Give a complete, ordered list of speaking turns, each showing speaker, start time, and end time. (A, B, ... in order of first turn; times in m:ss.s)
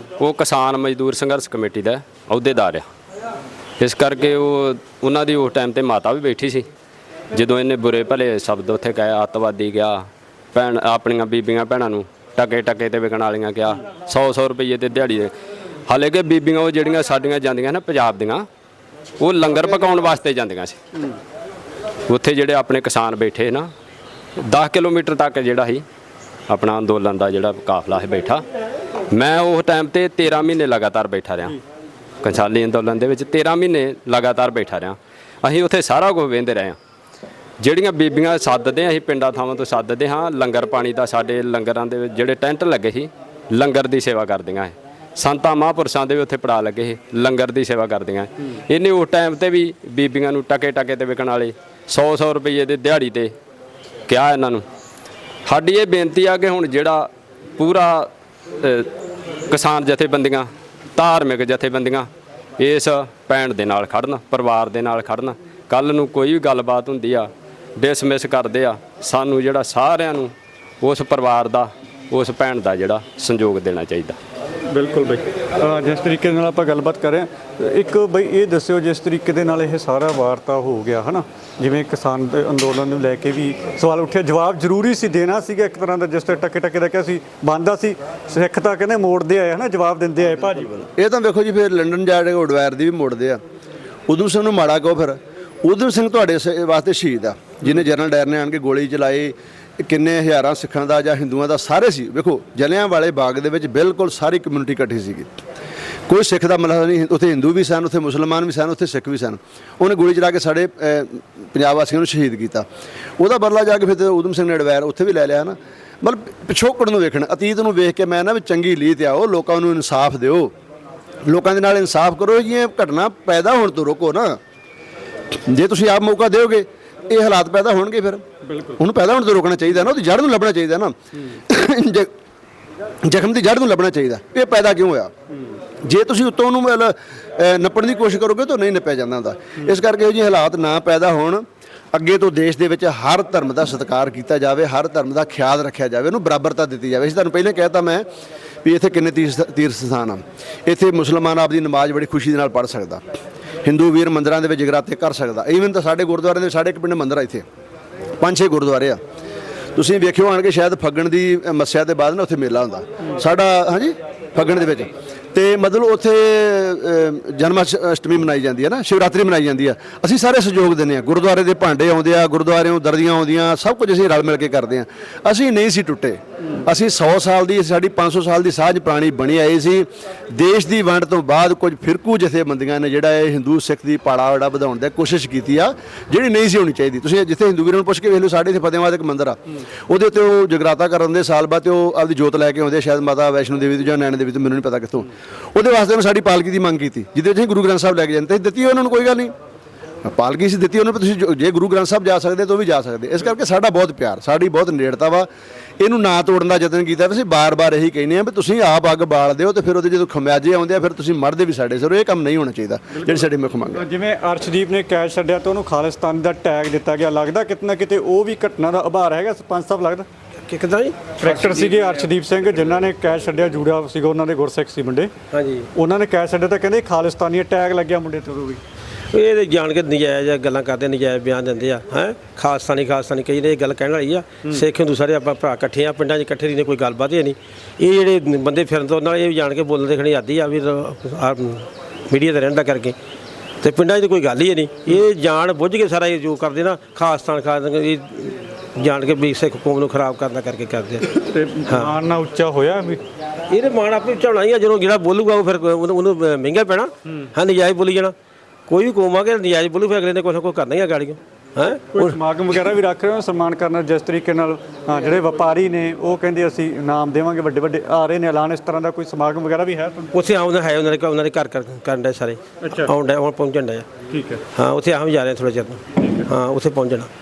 0:00.2-0:02.9 A
0:03.8-0:06.7 A
0:07.3-0:15.3 A
0:15.9-0:18.5 A
0:19.2-0:20.8 A
0:22.1-0:23.7 A
0:24.4-0:25.8 A
0:26.5-0:28.4 A
0:29.1-0:31.6 A
0:32.2-0:36.8 A
0:37.6-0:53.3 A
0:54.1-0:54.6 A
0:55.5-0:58.1 A
0:58.6-0:58.9 A
0:59.5-1:02.1 A
1:02.6-1:14.2 A
1:14.7-1:30.8 B
1:31.0-1:33.4 C
1:34.1-1:45.3 C
1:46.1-1:52.6 C
1:53.2-2:00.5 C
2:01.3-2:04.4 C
2:05.5-2:08.2 C
2:08.5-2:08.8 B
2:08.8-2:10.9 C
2:11.5-2:12.1 C
2:13.1-2:15.1 C
2:15.8-2:28.0 C
2:28.6-2:33.0 C
2:33.6-2:37.4 C
2:38.2-2:39.0 C
2:39.8-3:19.3 C
3:20.0-3:25.3 C
3:25.8-3:33.8 C
3:33.0-3:40.1 B
3:40.4-3:41.5 D
3:41.2-3:45.1 B
3:45.3-3:45.7 D
3:45.8-3:48.6 B
3:49.1-4:03.0 D
4:03.6-4:11.0 D
4:11.1-4:13.0 B
4:11.7-4:12.0 D
4:13.5-4:18.2 D
4:18.7-4:22.2 D
4:22.0-4:30.1 B
4:30.1-4:33.9 D
4:32.6-4:32.9 B
4:34.1-4:34.4 B
4:34.5-4:37.1 D